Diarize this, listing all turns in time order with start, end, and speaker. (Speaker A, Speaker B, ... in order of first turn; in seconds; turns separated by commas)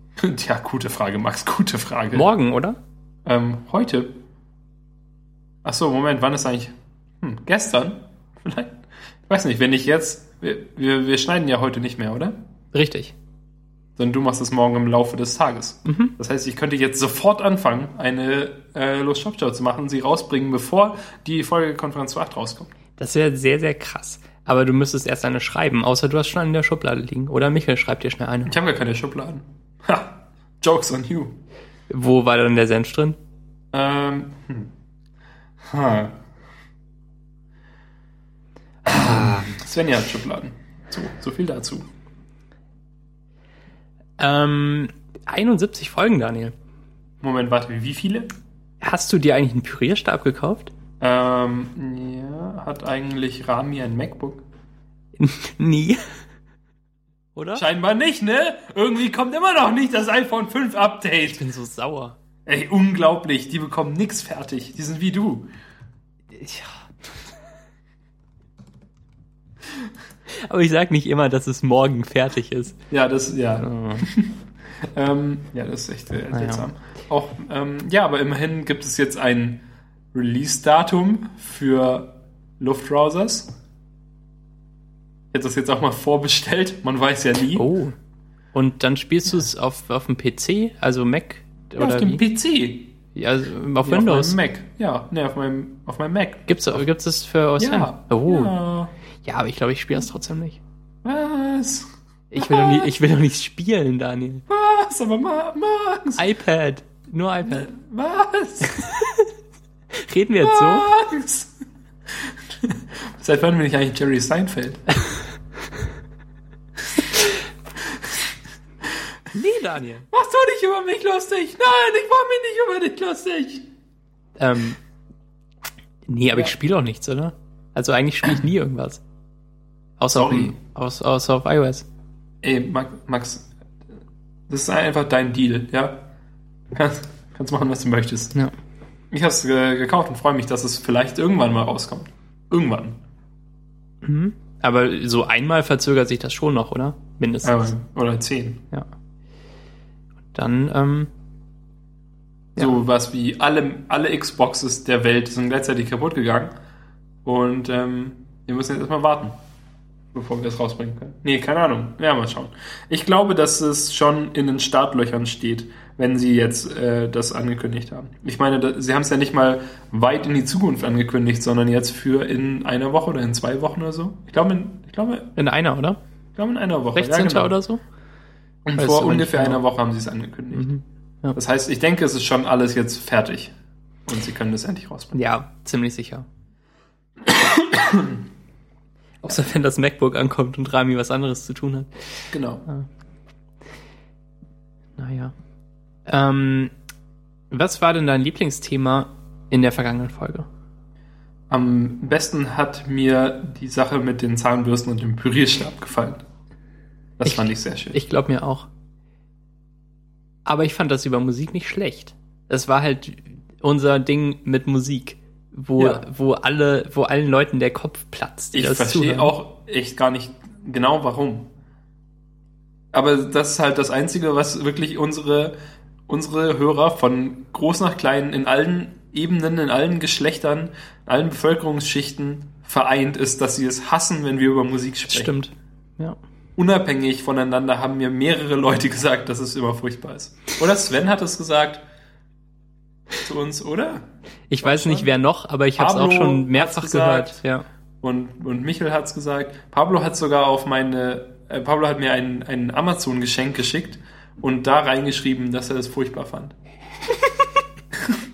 Speaker A: 0.2-2.3, Speaker B: 2.1-2.8, Speaker A: 3.2-4.1, Speaker A: 5.6-12.4, Speaker B: 12.7-13.1, Speaker A: 14.0-22.7, Speaker B: 15.8-16.1, Speaker B: 23.0-28.5, Speaker A: 28.4-31.4, Speaker B: 31.9-33.2, Speaker A: 33.7-34.7, Speaker A: 35.6-36.2, Speaker B: 38.9-39.5, Speaker A: 38.9-41.9, Speaker B: 44.2-46.5, Speaker A: 47.2-48.3, Speaker B: 48.8-50.7, Speaker A: 51.0-54.4, Speaker B: 55.2-56.0, Speaker B: 57.3-57.6, Speaker A: 57.5-61.4, Speaker B: 61.3-62.2, Speaker A: 62.5-65.5, Speaker B: 66.3-66.9, Speaker B: 70.5-72.8, Speaker A: 72.9-74.4, Speaker B: 73.6-74.0, Speaker A: 74.9-83.5, Speaker B: 76.3-76.7, Speaker A: 85.3-87.7, Speaker B: 87.5-87.9, Speaker B: 88.5-92.2, Speaker A: 91.8-92.9, Speaker B: 93.1-94.3, Speaker A: 93.8-96.8, Speaker B: 96.5-98.5, Speaker A: 97.6-98.9, Speaker B: 99.2-100.6, Speaker A: 101.0-102.9, Speaker B: 102.3-104.4, Speaker A: 104.5-106.2, Speaker B: 106.2-107.7, Speaker A: 107.5-108.9, Speaker B: 108.6-109.3, Speaker B: 110.0-110.9, Speaker A: 110.4-111.5, Speaker A: 112.2-114.9, Speaker B: 119.3-120.1, Speaker A: 120.1-123.6, Speaker B: 124.4-124.8, Speaker B: 126.1-129.0, Speaker B: 130.0-131.8, Speaker A: 130.1-130.6, Speaker A: 132.4-133.5, Speaker A: 134.5-136.0, Speaker A: 136.7-138.4, Speaker A: 139.1-143.0, Speaker B: 144.0-147.7, Speaker A: 147.4-148.6, Speaker B: 150.3-151.1, Speaker A: 152.6-156.5, Speaker A: 157.2-159.4, Speaker A: 160.1-175.3, Speaker B: 175.4-176.0, Speaker A: 176.3-177.6, Speaker B: 176.9-177.8, Speaker A: 178.6-180.7, Speaker B: 178.8-179.6, Speaker B: 180.5-181.3, Speaker A: 181.3-183.5, Speaker A: 184.1-185.2, Speaker B: 185.1-186.2, Speaker A: 187.3-188.2, Speaker B: 189.2-191.9, Speaker A: 192.3-192.7, Speaker B: 195.0-195.3, Speaker B: 196.1-196.7, Speaker B: 197.5-200.5, Speaker A: 201.5-206.2, Speaker A: 207.2-208.0, Speaker B: 207.2-208.7, Speaker B: 210.4-219.3, Speaker A: 215.8-216.0, Speaker A: 218.5-221.5, Speaker A: 222.9-225.5, Speaker A: 226.1-235.3, Speaker B: 235.1-236.2, Speaker A: 236.6-241.8, Speaker A: 243.2-244.0, Speaker B: 244.5-247.6, Speaker A: 244.6-245.1, Speaker A: 245.8-247.4, Speaker A: 248.0-256.5